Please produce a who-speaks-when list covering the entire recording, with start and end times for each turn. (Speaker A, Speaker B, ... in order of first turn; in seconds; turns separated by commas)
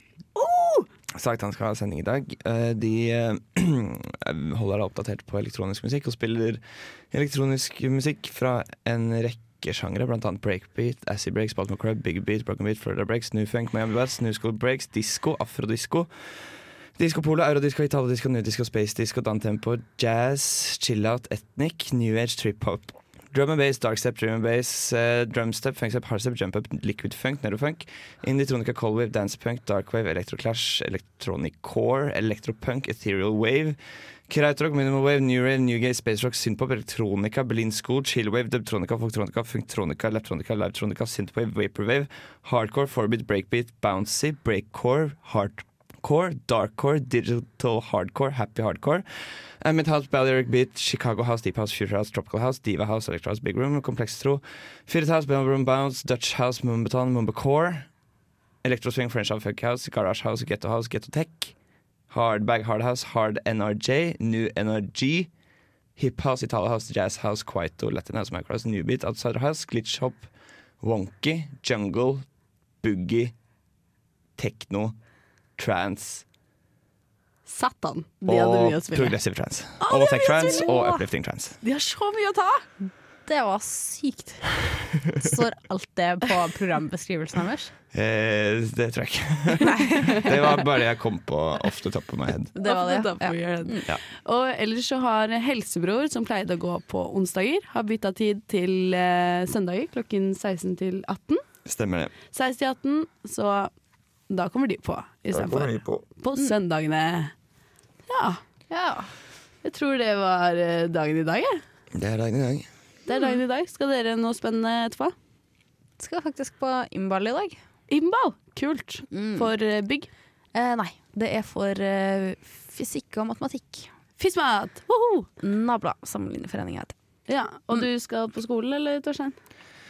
Speaker A: 0.3-0.9, Speaker B: 1.1-33.8, Speaker B: 34.3-57.9, Speaker B: 58.6-61.5, Speaker B: 62.1-65.3, Speaker B: 66.0-70.3, Speaker B: 70.8-72.2, Speaker B: 72.8-73.3, Speaker B: 74.4-74.9, Speaker B: 75.6-76.2, Speaker A: 77.5-79.2, Speaker B: 78.2-81.6, Speaker A: 79.8-81.0, Speaker A: 81.6-82.7, Speaker C: 83.2-84.5, Speaker C: 85.2-87.7, Speaker B: 87.9-92.5, Speaker C: 89.8-90.3, Speaker C: 92.5-93.9, Speaker A: 92.6-101.4, Speaker B: 101.7-102.1, Speaker A: 102.3-103.7, Speaker A: 104.3-107.3, Speaker B: 105.3-106.0, Speaker A: 108.1-108.4, Speaker C: 108.7-109.1, Speaker A: 109.6-111.6, Speaker B: 111.9-112.7, Speaker A: 113.1-115.1, Speaker C: 113.1-113.4, Speaker C: 116.0-117.6, Speaker A: 117.9-120.1, Speaker C: 119.1-119.5, Speaker C: 120.5-123.9, Speaker A: 124.2-125.3, Speaker C: 125.4-126.9, Speaker A: 127.3-129.3